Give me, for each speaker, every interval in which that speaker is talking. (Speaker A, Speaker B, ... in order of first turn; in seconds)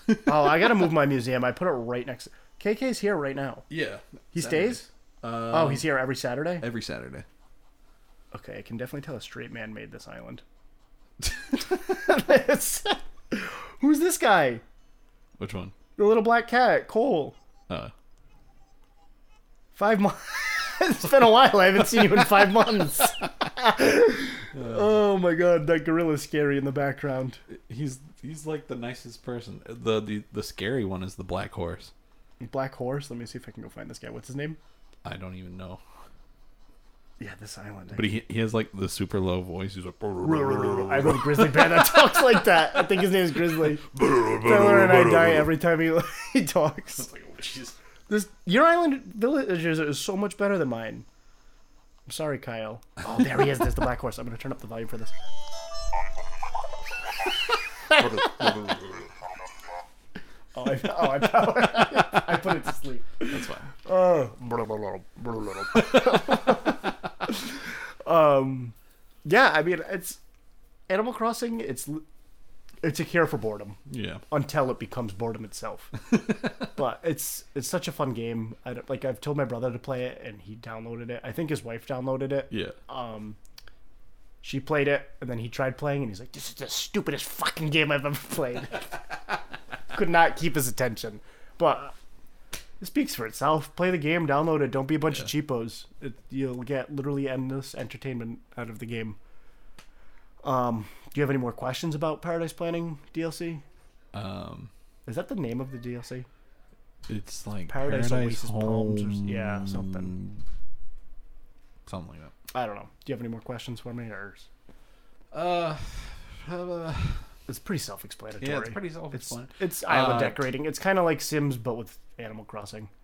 Speaker A: 0.2-3.7, 4.3-4.9, 5.5-6.7, 8.3-10.4, 11.5-14.6, 16.0-17.4, 19.8-27.4, 32.4-34.6, 37.2-38.1, 40.2-47.1, 48.1-51.1, 52.1-55.1, 57.9-58.5, 60.5-70.2, 70.9-72.0, 72.8-73.8, 74.3-76.0, 76.7-83.4, 84.4-89.0, 89.9-91.9, 92.8-99.2, 100.4-103.6, 105.1-106.3, 107.7-110.2, 112.5-114.5, 117.5-122.9
Speaker B: 3.7-6.0, 6.6-7.3, 15.4-15.8, 24.5-25.0, 27.5-31.9, 35.0-35.8, 37.9-42.0, 43.9-45.5, 47.0-47.8, 57.9-59.1, 63.3-63.7, 65.9-66.5, 73.9-74.2, 76.1-76.7, 82.5-82.8, 104.1-104.7, 107.1-110.4, 111.9-112.3, 115.3-117.2, 118.4-120.5